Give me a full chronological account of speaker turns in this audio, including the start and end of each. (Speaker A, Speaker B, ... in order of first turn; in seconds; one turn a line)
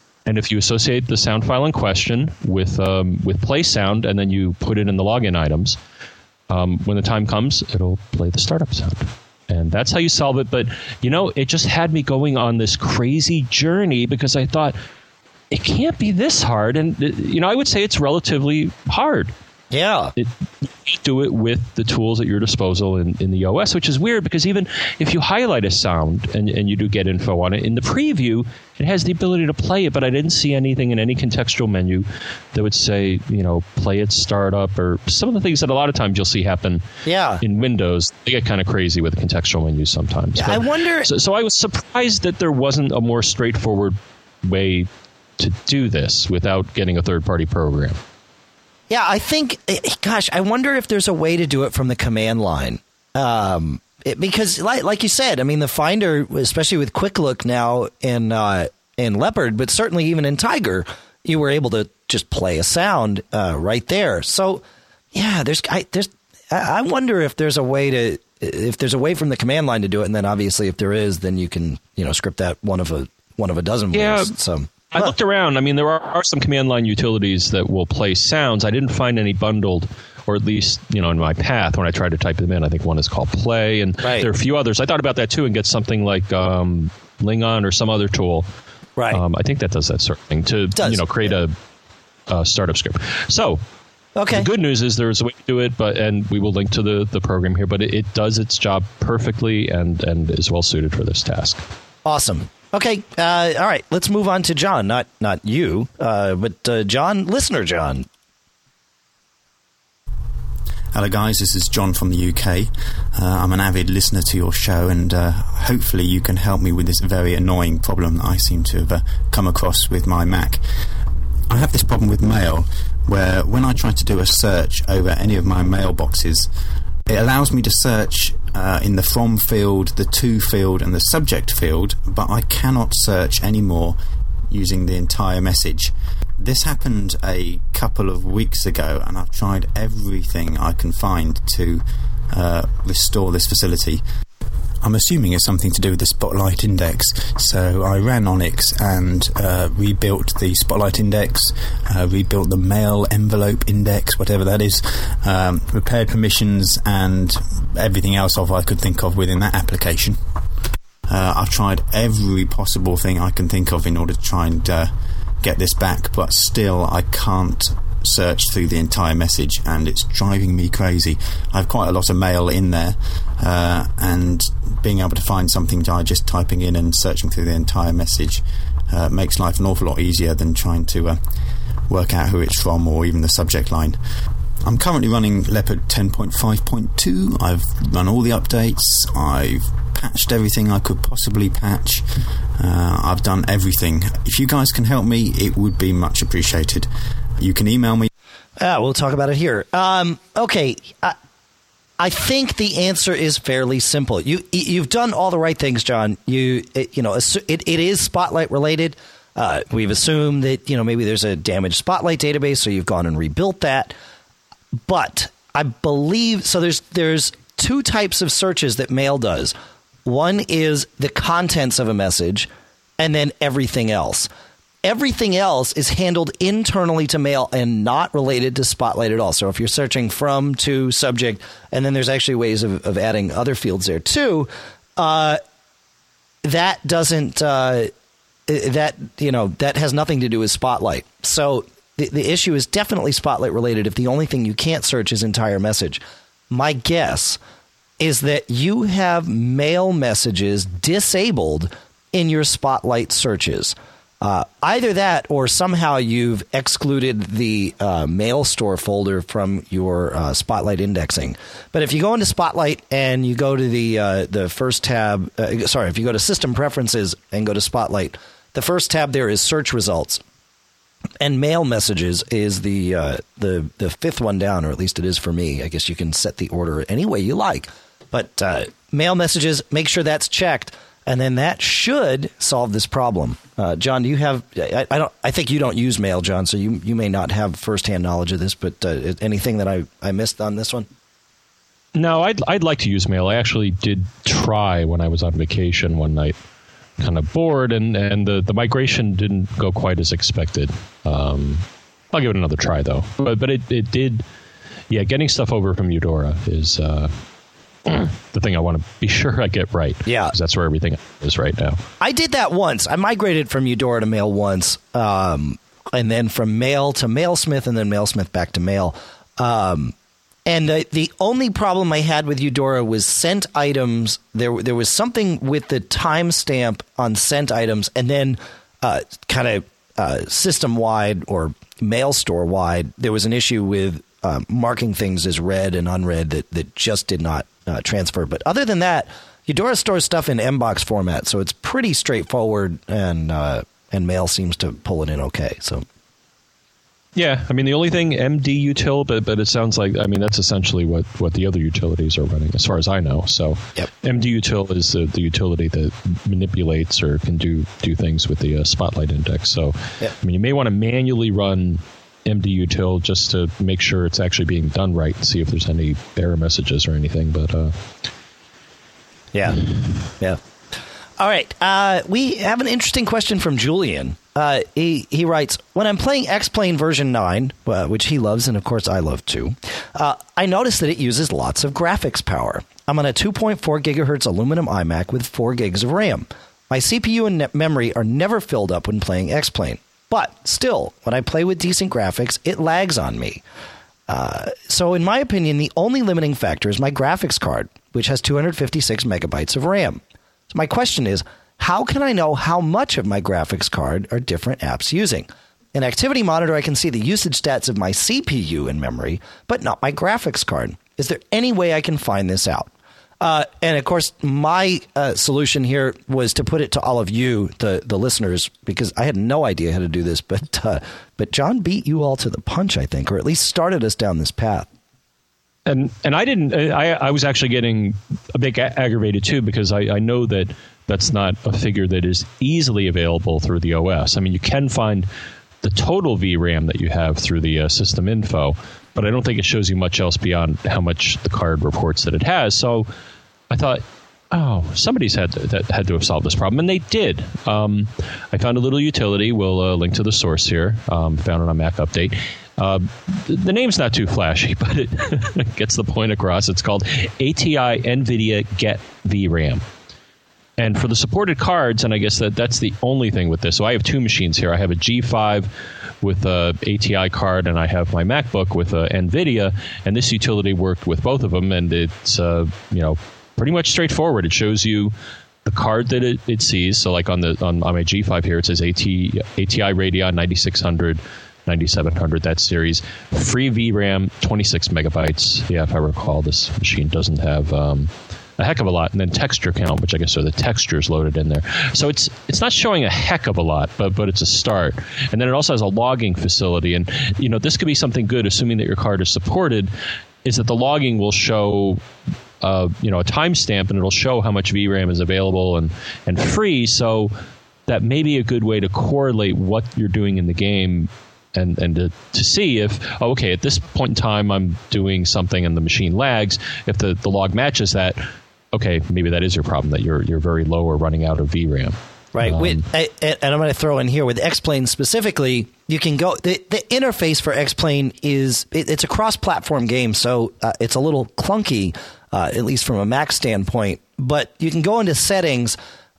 Speaker A: 0.2-5.8
Speaker A: 6.5-14.7
Speaker A: 15.5-19.3
Speaker B: 19.7-20.1
Speaker A: 20.2-36.8
Speaker B: 37.0-37.4
Speaker A: 37.4-48.0
Speaker B: 40.4-41.1
Speaker B: 48.9-75.1
Speaker A: 73.9-74.3
Speaker A: 74.9-88.5
Speaker B: 84.0-84.3
Speaker A: 89.1-91.5
Speaker B: 90.8-91.3
Speaker A: 92.3-93.6
Speaker B: 94.2-94.5
Speaker A: 94.3-101.6
Speaker B: 102.0-108.0
Speaker C: 110.9-120.6
Speaker C: 121.5-126.5
Speaker C: 127.0-134.0
Speaker C: 134.5-144.0
Speaker C: 144.8-160.2
Speaker C: 161.1-181.2
Speaker C: 181.9-184.0
Speaker C: 184.6-192.1
Speaker C: 192.6-198.1
Speaker B: 198.6-201.2
Speaker B: 202.0-213.9
Speaker B: 214.8-219.5
Speaker B: 220.0-224.3
Speaker B: 224.8-235.4
Speaker B: 236.4-237.9
Speaker B: 238.5-247.4
Speaker B: 248.0-270.2
Speaker B: 271.2-290.9
Speaker A: 291.9-296.4
Speaker A: 297.0-304.2
Speaker A: 304.9-307.1
Speaker A: 307.9-311.8
Speaker B: 310.1-310.3
Speaker B: 312.0-319.9
Speaker B: 320.4-345.8
Speaker A: 347.1-367.8
Speaker B: 369.3-370.4
Speaker B: 371.2-393.4
Speaker B: 394.1-424.7
Speaker A: 425.6-435.1
Speaker A: 435.6-442.9
Speaker A: 443.5-459.6
Speaker A: 460.6-465.5
Speaker A: 466.0-474.9
Speaker A: 475.4-499.7
Speaker A: 500.2-501.8
Speaker A: 502.4-507.1
Speaker A: 507.7-518.0
Speaker A: 518.5-522.6
Speaker B: 522.1-535.6